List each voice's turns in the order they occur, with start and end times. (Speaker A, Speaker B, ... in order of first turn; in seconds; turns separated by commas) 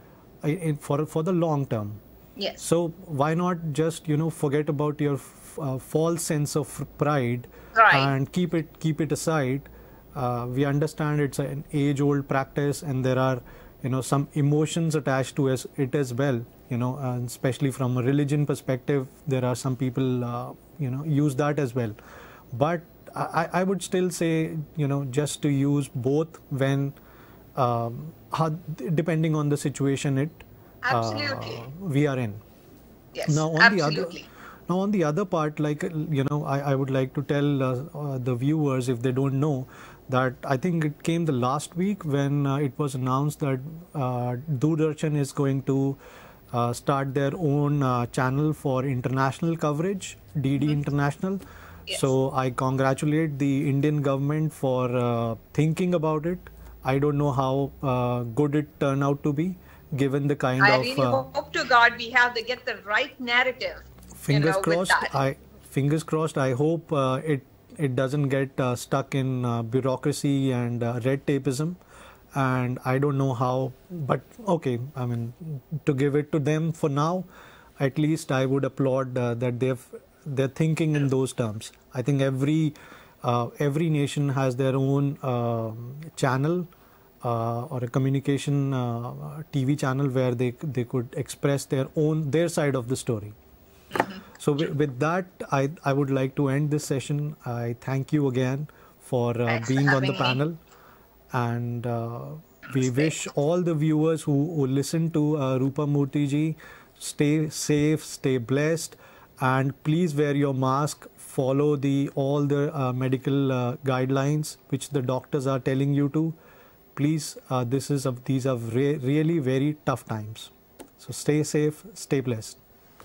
Speaker A: 0.4-2.0, Speaker B: 2.4-2.6, Speaker A: 2.6-21.9, Speaker B: 7.7-8.1, Speaker A: 22.5-26.9, Speaker A: 27.5-32.4, Speaker B: 30.8-31.6, Speaker B: 33.1-34.2, Speaker A: 33.2-46.0, Speaker A: 46.5-61.2, Speaker B: 60.6-65.1, Speaker A: 64.2-71.8, Speaker A: 72.3-77.2, Speaker A: 77.8-86.7, Speaker A: 87.2-93.3, Speaker A: 94.4-100.6, Speaker B: 99.9-100.4, Speaker A: 101.3-116.3, Speaker A: 117.0-122.6